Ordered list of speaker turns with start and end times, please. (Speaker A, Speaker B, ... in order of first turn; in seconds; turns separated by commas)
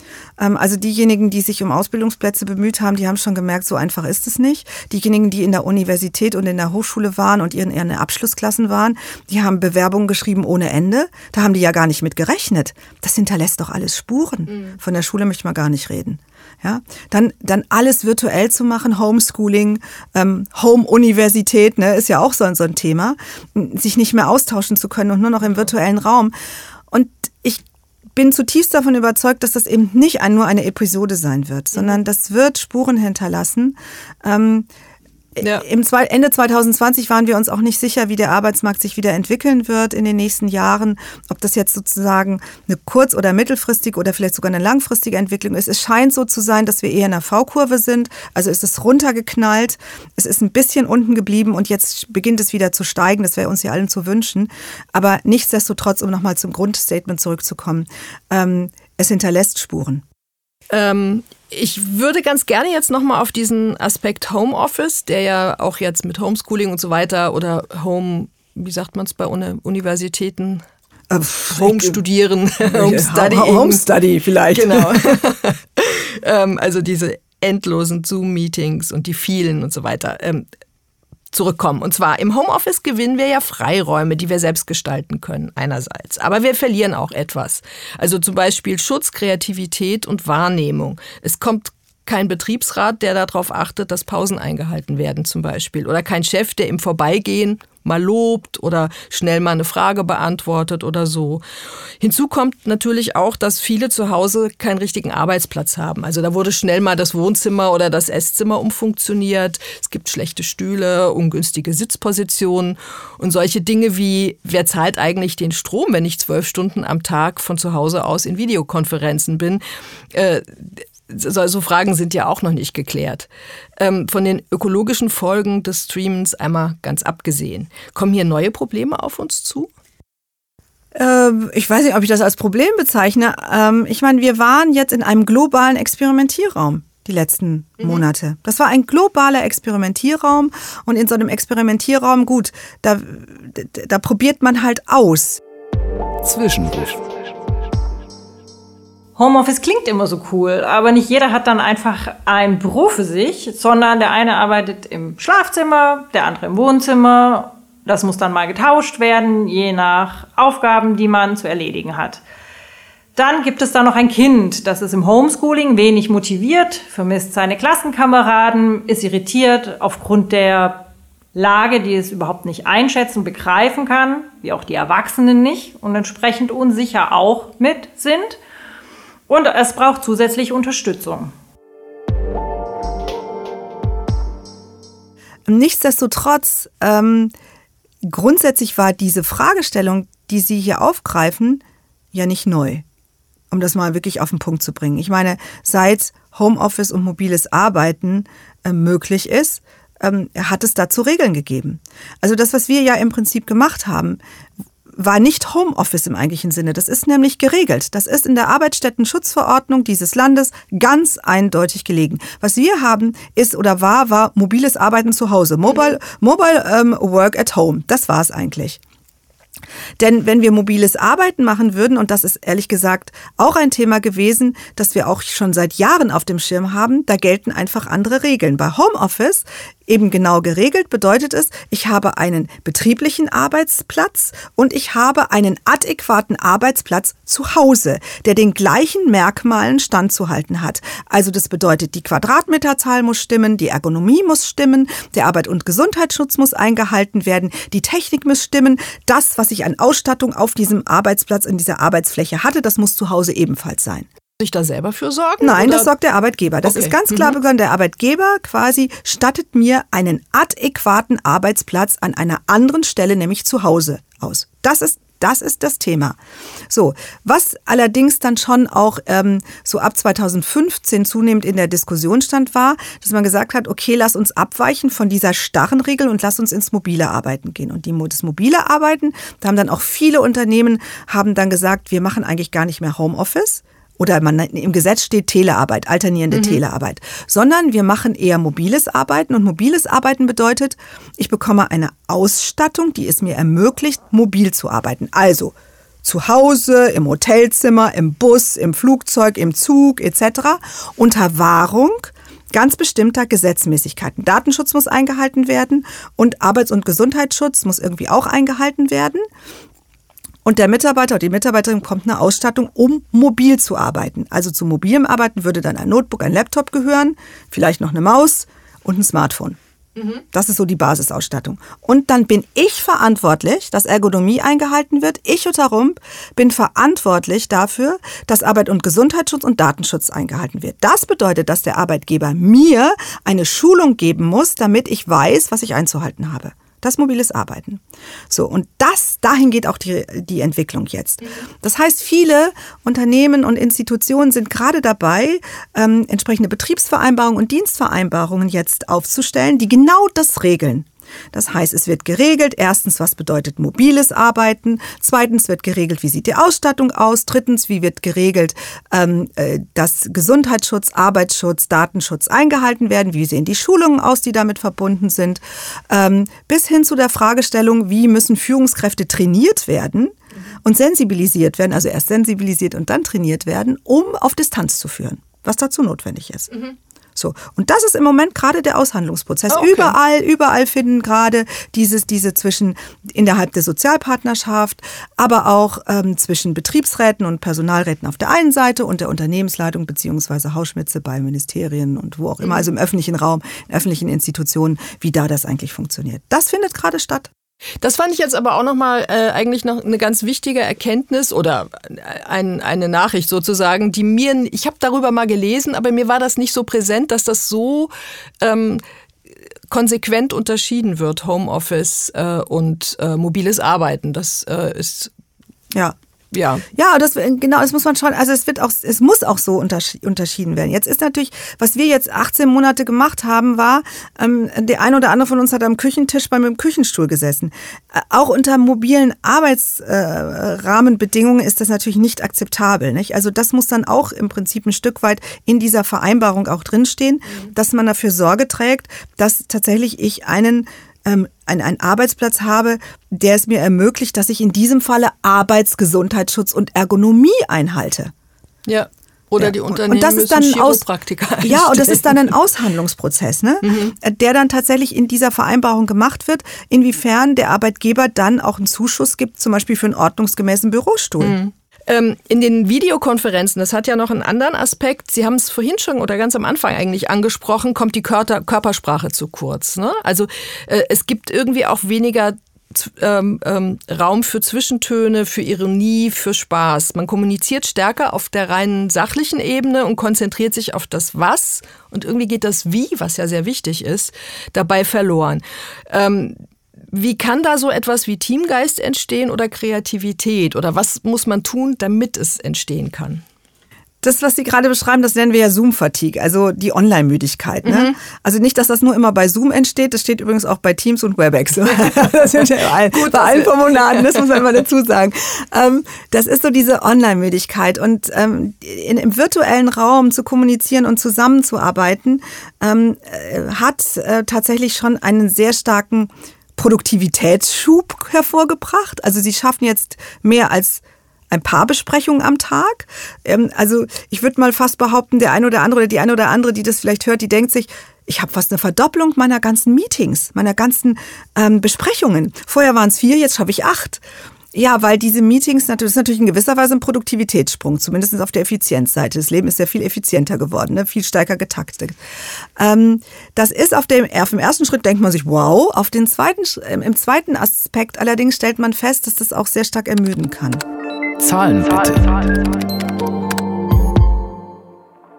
Speaker A: 0.4-26.3, Speaker B: 14.5-14.8, Speaker A: 26.9-34.7, Speaker A: 35.4-60.0, Speaker B: 35.4-35.6, Speaker B: 60.7-70.6, Speaker A: 71.1-72.0, Speaker B: 71.5-73.8, Speaker A: 72.6-75.2, Speaker B: 74.5-80.5, Speaker B: 81.3-101.4, Speaker B: 102.0-119.6, Speaker B: 120.1-129.7, Speaker A: 130.9-145.4, Speaker C: 146.2-147.0, Speaker D: 149.2-162.2, Speaker D: 163.2-178.4, Speaker D: 179.3-181.3, Speaker A: 185.5-187.3, Speaker A: 188.0-192.8, Speaker A: 193.5-204.2, Speaker A: 204.9-218.8, Speaker A: 220.0-254.1, Speaker B: 254.4-255.9, Speaker A: 255.4-266.2, Speaker B: 256.6-257.4, Speaker A: 266.7-309.3, Speaker B: 286.3-286.6, Speaker A: 310.4-319.6, Speaker B: 320.0-320.2, Speaker A: 320.3-376.5, Speaker A: 377.2-397.3, Speaker B: 379.5-379.9, Speaker B: 397.8-408.8, Speaker B: 409.7-415.1, Speaker B: 416.3-416.6, Speaker A: 416.7-448.1, Speaker B: 448.7-452.3, Speaker A: 449.4-450.9, Speaker A: 451.4-461.4, Speaker B: 453.6-453.9, Speaker B: 461.2-486.4, Speaker B: 486.9-493.2, Speaker A: 494.0-542.0, Speaker B: 497.6-498.0, Speaker B: 502.9-504.4, Speaker A: 542.6-550.6, Speaker C: 551.2-552.4